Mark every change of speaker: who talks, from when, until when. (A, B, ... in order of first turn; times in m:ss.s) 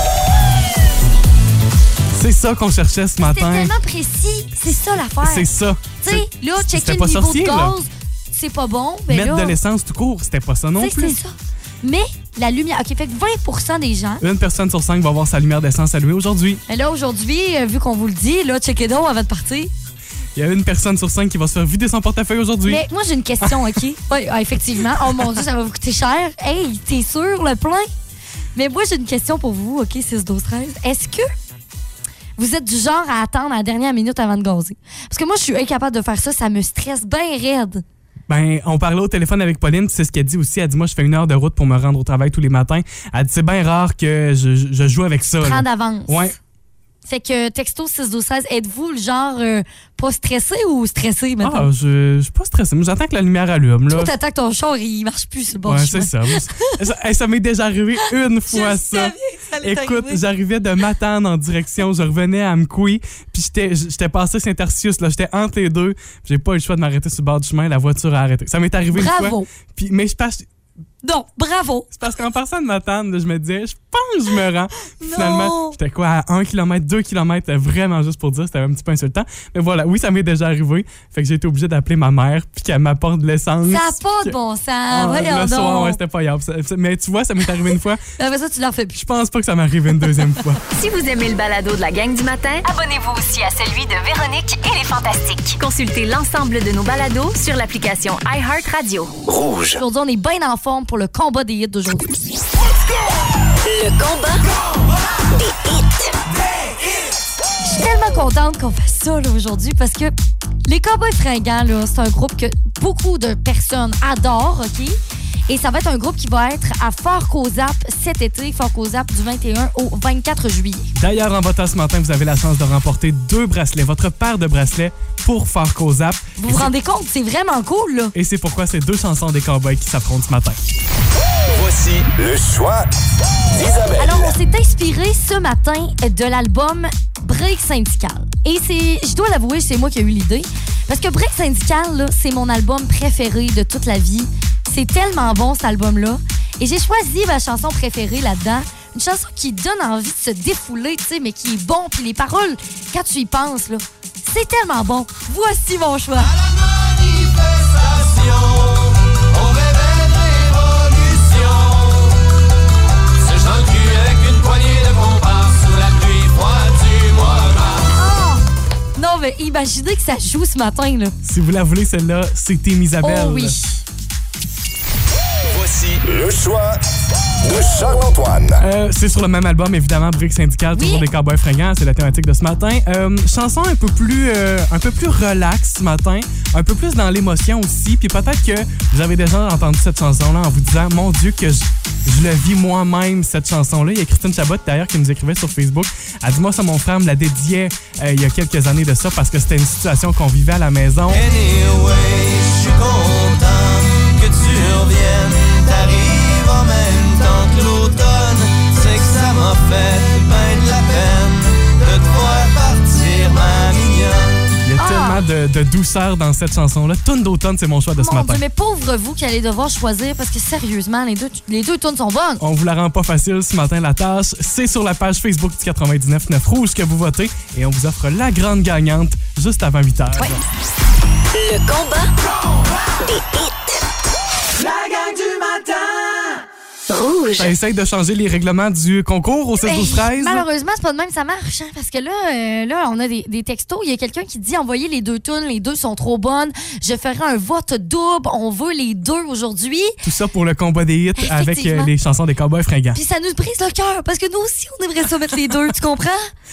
0:02.1-0:03.7 A
0:03.3-0:05.5 B
0:05.2-0:07.7 A
0:06.0-0:09.6 B
0:09.1-0:11.2 A
0:10.8-0:14.2 B
0:14.2-0:16.6 A
0:16.7-0:19.7 B
0:20.4-0:22.8 A
0:22.6-0:27.9 B
0:28.5-0:31.3 B
0:32.4-0:37.8 B
0:38.3-0:46.3 A
0:45.4-0:46.3 B
0:47.0-0:51.7 B
0:51.4-0:54.1 A
0:53.9-0:56.7 B
0:55.6-1:10.4 A
0:58.5-1:00.2 B
1:08.9-1:09.5 B
1:11.0-1:11.9 B
1:11.9-1:24.3 A
1:15.0-1:15.8 B
1:23.7-1:26.0 B
1:24.9-1:28.0 A
1:28.2-1:29.0 B
1:28.9-1:30.6 A
1:30.7-1:39.2 C
1:39.2-1:39.8 D
1:39.8-1:42.1 B
1:43.6-1:44.4 C
1:45.3-1:46.1 C
1:47.6-1:50.1 B
1:50.6-2:00.9 B
2:01.0-2:06.7 A
2:06.4-2:08.1 B
2:08.1-2:10.6 A
2:11.5-2:12.8 D
2:13.5-2:14.3 D
2:13.9-2:36.3 B
2:36.2-2:42.2 E
2:43.2-2:47.9 E
2:48.0-2:48.4 B
2:49.0-2:51.1 B
2:51.2-2:53.6 A
2:53.0-2:53.8 B
2:55.5-2:56.7 D
2:57.4-2:58.5 D
2:58.6-3:21.2 A
3:00.7-3:01.1 B
3:21.1-3:34.4 E
3:34.6-3:38.4 A
3:34.8-3:35.2 B
3:38.0-3:42.4 B
3:42.4-3:50.4 A
3:51.3-3:52.1 C
3:53.0-3:53.8 C
3:54.6-3:56.4 E
3:56.9-3:57.5 C
3:57.4-4:00.4 A
3:59.6-4:09.9 B
4:10.0-4:13.0 A
4:11.2-4:11.9 B
4:12.9-4:16.3 B